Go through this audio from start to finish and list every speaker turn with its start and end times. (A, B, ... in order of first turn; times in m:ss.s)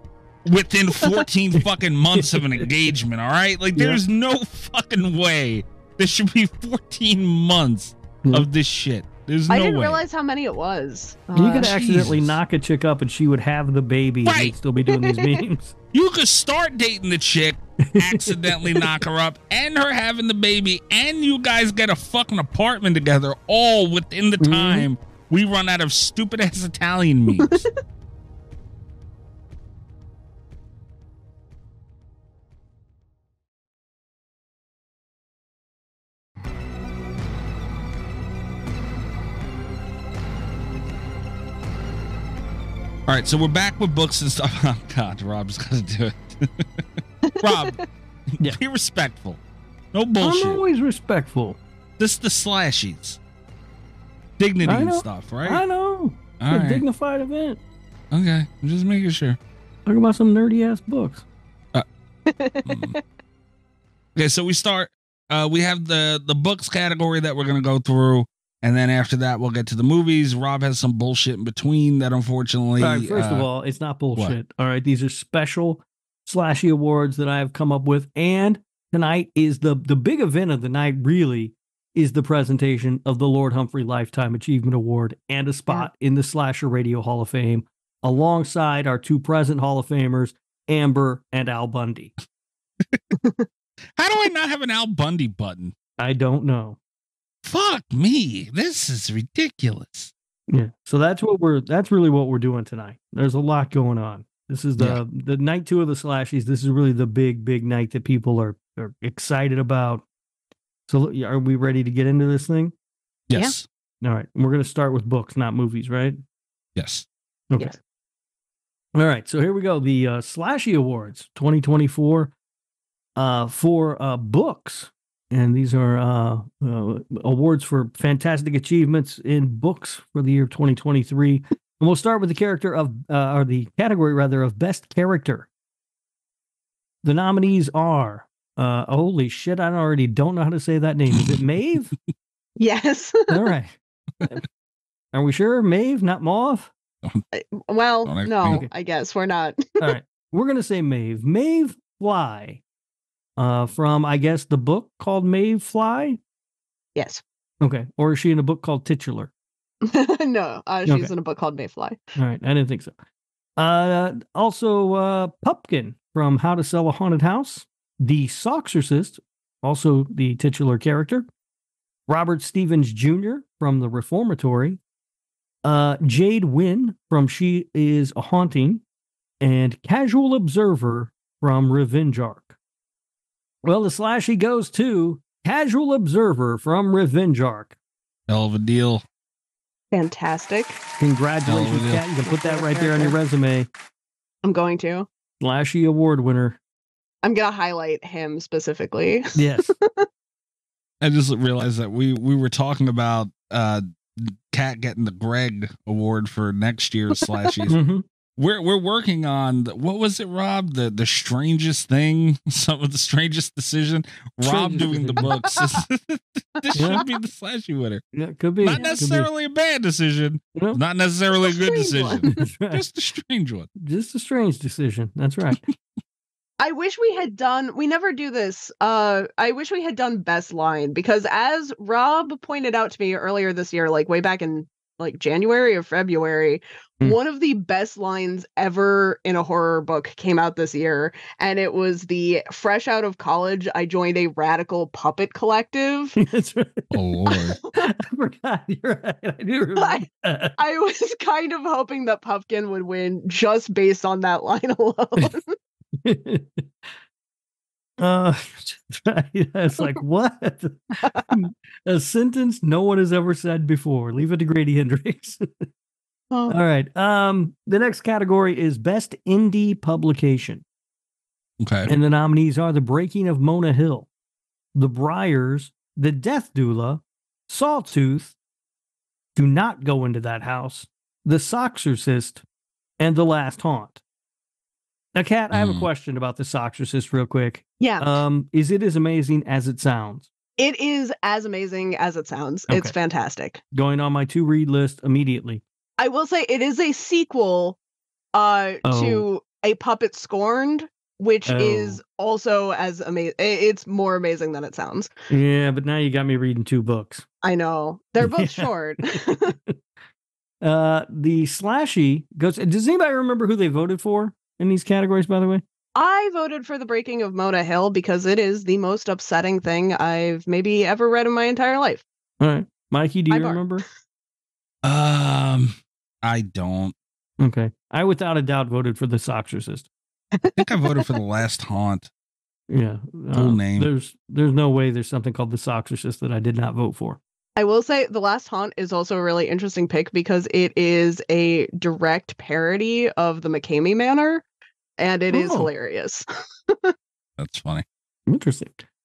0:00.5-0:10.0 A
0:01.6-0:02.7 B
0:03.8-0:04.0 B
0:09.5-0:11.8 C
0:11.4-0:15.7 B
0:11.6-0:12.4 A
0:14.2-0:14.6 A
0:14.9-0:15.4 C
0:15.9-0:27.6 A
0:17.9-0:18.9 B
0:24.4-0:24.9 B
0:43.1-0:46.8 A
0:47.3-0:47.8 C
0:47.4-0:47.8 A
0:48.4-0:49.4 A
0:49.9-0:50.6 A
0:50.2-0:51.6 B
0:52.0-0:53.2 A
0:54.4-0:55.6 A
0:54.6-0:57.6 B
0:56.4-0:56.8 A
0:58.1-0:59.4 A
0:59.9-1:01.2 B
1:02.3-1:03.0 C
1:02.7-1:03.0 A
1:04.2-1:13.5 A
1:12.8-1:32.1 B
1:33.2-1:33.5 C
1:34.0-1:35.8 A
1:36.0-1:36.8 B
1:37.4-1:40.1 A
1:40.5-1:50.0 B
1:50.9-1:52.7 B
1:53.3-1:53.7 A
1:54.0-1:56.2 B
1:56.8-1:57.1 A
1:57.5-1:57.8 B
1:59.0-2:02.3 B
2:03.2-2:15.5 B
2:17.0-2:21.9 B
2:21.1-2:21.4 A
2:22.6-2:23.4 C
2:23.3-2:24.4 B
2:25.1-2:26.7 B
2:27.3-2:30.0 C
2:28.0-2:28.6 A
2:29.8-2:32.6 B
2:33.4-2:36.2 B
2:37.0-2:37.2 C
2:37.6-2:39.3 B
2:39.8-2:42.0 C
2:40.9-2:41.1 B
2:42.2-2:43.0 B
2:43.6-2:51.3 B
2:52.1-2:54.8 B
2:55.6-2:58.8 B
2:59.4-3:02.6 B
3:03.6-3:07.8 B
3:08.3-3:09.0 A
3:09.9-3:10.8 C
3:11.0-3:13.7 B
3:11.5-3:12.0 A
3:12.2-3:13.2 C
3:14.4-3:15.1 C
3:15.4-3:16.6 B
3:17.2-3:20.1 C
3:19.4-3:19.7 B
3:21.0-3:27.8 A
3:27.7-3:28.0 B
3:28.4-3:38.0 A
3:34.4-3:35.3 B
3:36.6-3:37.0 C
3:36.8-3:37.0 B
3:38.1-3:39.3 B
3:38.6-3:43.7 A
3:40.6-3:40.8 B
3:41.4-3:42.4 C
3:42.3-3:42.8 B
3:43.8-3:45.6 B
3:46.6-4:06.2 C
4:06.2-4:07.0 B
4:06.9-4:07.6 A
4:07.5-4:07.8 C
4:07.8-4:10.6 B
4:09.8-4:10.1 C
4:10.6-4:15.5 C
4:16.0-4:16.7 B
4:18.0-4:25.6 B
4:21.0-4:21.4 C
4:26.3-4:26.6 C
4:26.5-4:30.6 B
4:31.6-4:31.9 A
4:31.9-4:34.1 B
4:34.8-4:38.4 B
4:39.4-4:42.4 B
4:43.0-4:44.0 B
4:45.2-4:50.3 B
4:45.5-4:45.9 A
4:47.8-4:48.2 C
4:50.6-4:53.6 C
4:53.7-4:55.6 B
4:56.0-4:57.8 C
4:58.4-5:05.1 C
4:58.8-4:59.3 B
5:01.5-5:02.0 B
5:05.3-5:07.2 B
5:07.4-5:09.5 C
5:08.2-5:09.8 B
5:10.6-5:15.6 B
5:16.0-5:22.0 C
5:22.4-5:23.8 B
5:23.3-5:23.7 C
5:24.8-5:27.0 A
5:27.4-5:29.9 B
5:30.4-5:31.0 C
5:30.6-5:32.1 A
5:32.7-5:37.2 B
5:33.3-5:33.9 A
5:37.6-5:44.4 C
5:45.0-5:46.9 C
5:45.3-5:45.7 B
5:47.4-5:47.8 A
5:48.3-5:48.8 B